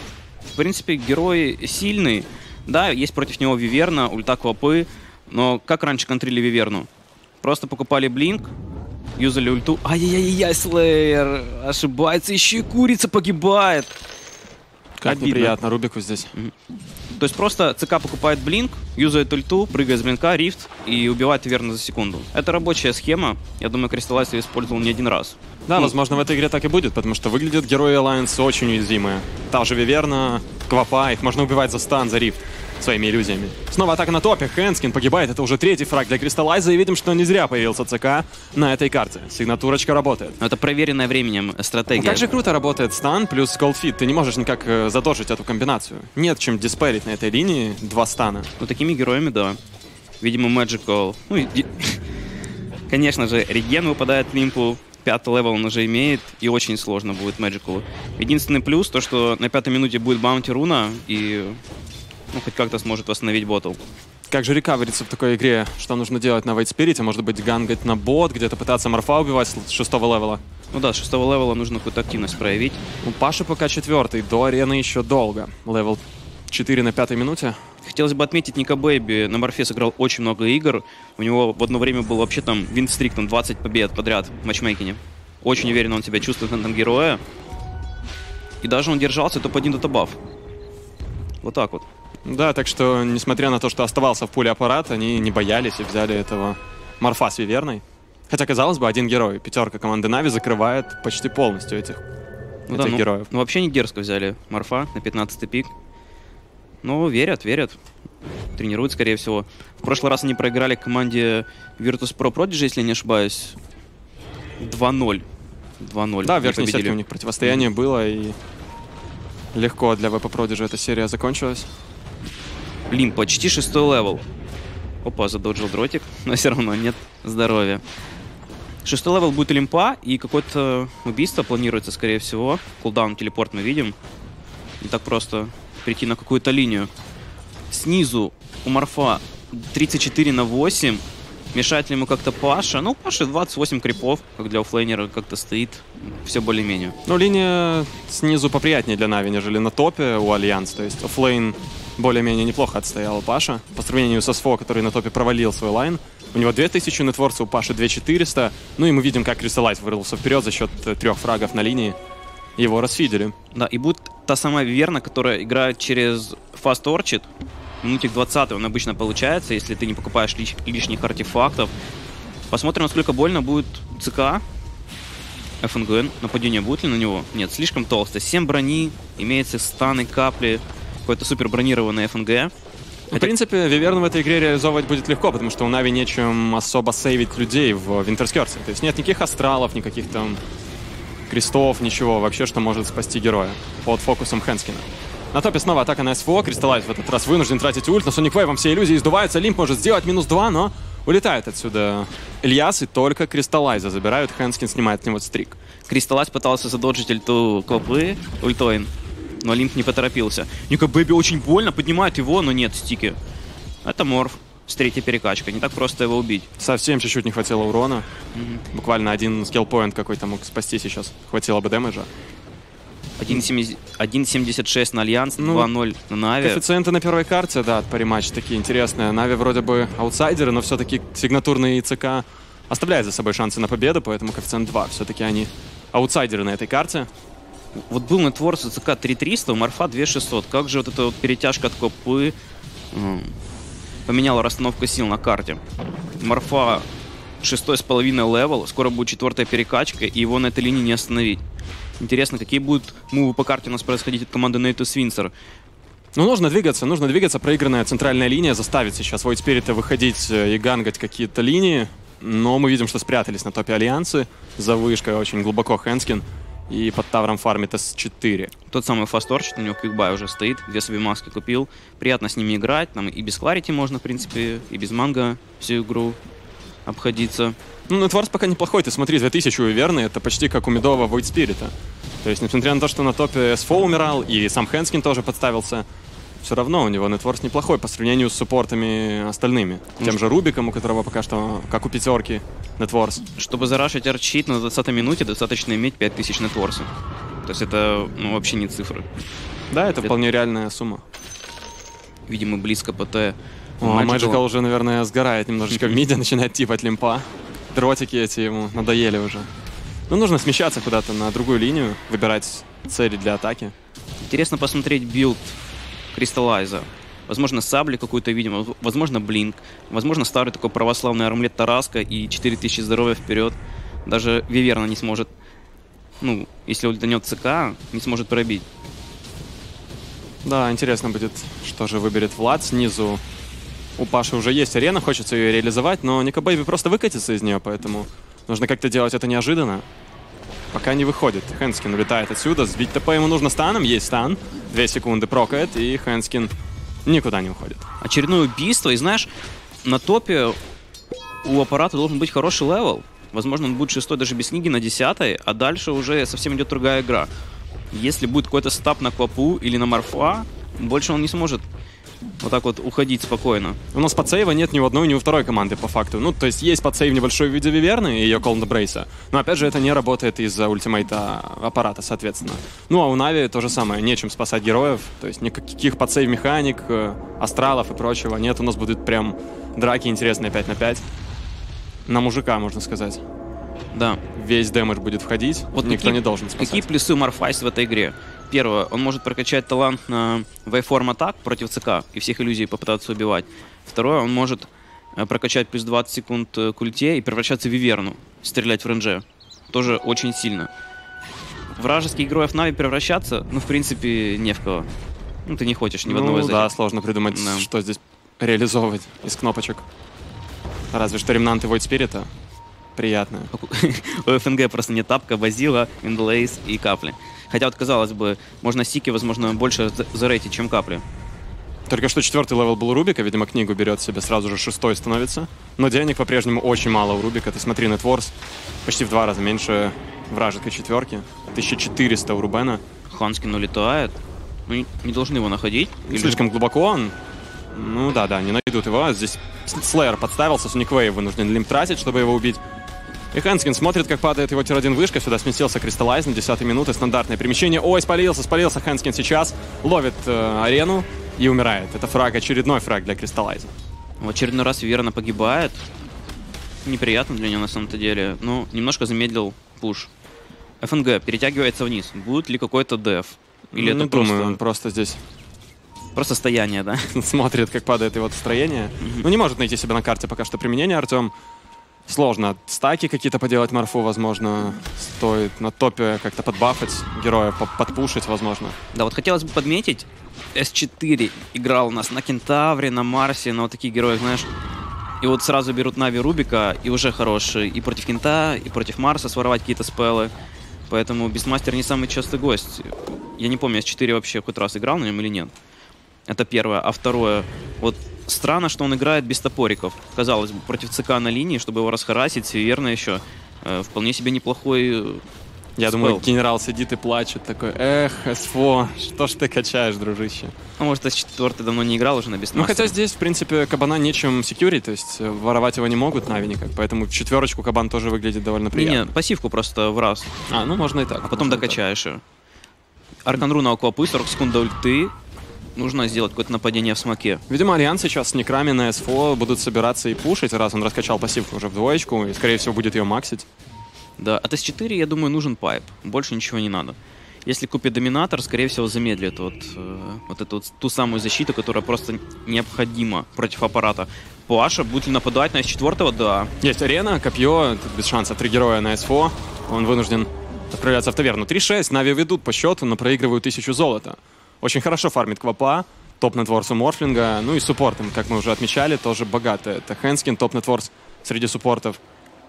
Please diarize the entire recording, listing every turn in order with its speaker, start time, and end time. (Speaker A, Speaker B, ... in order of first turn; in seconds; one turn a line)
Speaker A: 0.5-6.9
Speaker A: 7.4-8.5
Speaker A: 9.2-13.9
Speaker B: 15.0-16.3
Speaker A: 15.1-15.6
Speaker A: 17.1-25.9
Speaker B: 25.7-40.4
Speaker A: 40.4-42.2
Speaker B: 42.0-48.5
Speaker A: 48.6-49.6
Speaker A: 50.2-52.0
Speaker A: 52.9-61.6
Speaker A: 62.3-63.8
Speaker B: 64.3-70.4
Speaker A: 70.7-72.8
Speaker B: 73.0-77.6
Speaker A: 77.8-87.2
Speaker A: 88.6-90.2
Speaker A: 91.4-91.8
Speaker B: 92.3-102.0
Speaker B: 102.7-103.3
Speaker A: 102.7-105.7
Speaker A: 106.8-107.8
Speaker A: 108.6-113.6
Speaker A: 114.6-115.2
Speaker A: 115.8-117.7
Speaker B: 116.2-118.4
Speaker B: 119.5-121.7
Speaker A: 122.9-124.2
Speaker A: 125.0-127.8
Speaker A: 128.8-133.9
Speaker A: 134.8-136.9
Speaker A: 137.7-141.0
Speaker A: 141.5-147.0
Speaker B: 147.1-162.0
Speaker B: 162.6-163.3
Speaker A: 163.5-167.3
Speaker A: 167.8-171.7
Speaker A: 172.5-174.4
Speaker A: 175.6-182.5
Speaker B: 183.1-190.4
Speaker B: 191.3-205.6
Speaker A: 205.9-208.9
Speaker A: 209.4-213.2
Speaker A: 213.8-216.5
Speaker B: 216.6-218.1
Speaker A: 218.3-218.6
Speaker B: 218.7-222.1
Speaker A: 223.2-226.6
Speaker B: 225.4-225.7
Speaker B: 226.4-237.1
Speaker A: 237.9-242.3
Speaker A: 242.9-243.4
Speaker A: 244.1-245.6
Speaker A: 246.2-246.9
Speaker A: 247.4-251.4
Speaker A: 252.0-255.3
Speaker B: 256.1-268.5
Speaker A: 268.7-276.2
Speaker A: 276.9-277.6
Speaker B: 277.9-285.9
Speaker B: 286.4-293.2
Speaker A: 293.4-296.9
Speaker A: 297.5-299.1
Speaker B: 299.7-301.0
Speaker A: 302.3-304.4
Speaker B: 303.8-309.5
Speaker B: 310.1-313.7
Speaker A: 314.2-315.6
Speaker A: 316.1-325.3
Speaker A: 326.2-328.7
Speaker B: 330.4-333.2
Speaker B: 334.0-339.9
Speaker B: 340.7-346.5
Speaker B: 347.1-347.9
Speaker A: 348.0-349.3
Speaker A: 349.8-350.6
Speaker A: 351.4-357.3
Speaker A: 357.9-361.6
Speaker A: 362.4-363.8
Speaker B: 363.9-381.1
Speaker B: 382.1-383.2
Speaker A: 383.9-384.2
Speaker B: 384.4-386.9
Speaker A: 385.7-400.7
Speaker A: 401.8-404.9
Speaker A: 405.5-406.8
Speaker B: 406.1-409.9
Speaker A: 407.3-407.7
Speaker B: 410.9-412.3
Speaker B: 413.0-413.5
Speaker A: 413.5-421.0
Speaker B: 421.9-432.8
Speaker A: 433.1-434.1
Speaker A: 434.7-436.4
Speaker B: 436.1-437.2
Speaker B: 437.7-442.6
Speaker B: 443.3-453.7
Speaker A: 454.2-455.9
Speaker A: 456.9-460.1
Speaker A: 460.8-464.6
Speaker B: 463.7-465.2
Speaker A: 466.1-467.1
Speaker B: 467.1-471.3
Speaker A: 469.0-469.3
Speaker B: 472.1-478.8
Speaker A: 478.9-484.5
Speaker A: 485.2-490.3
Speaker A: 490.9-495.5
Speaker A: 496.3-505.2
Speaker B: 505.8-510.5
Speaker A: 505.9-506.2
Speaker A: 510.8-513.0
Speaker B: 512.5-519.0
Speaker A: 518.7-520.3
Speaker B: 520.5-521.8
Speaker A: 521.3-522.2
Speaker A: 523.2-525.1
Speaker A: 525.8-527.4
Speaker B: 527.5-533.5
Speaker A: 534.2-546.5
Speaker B: 546.6-562.0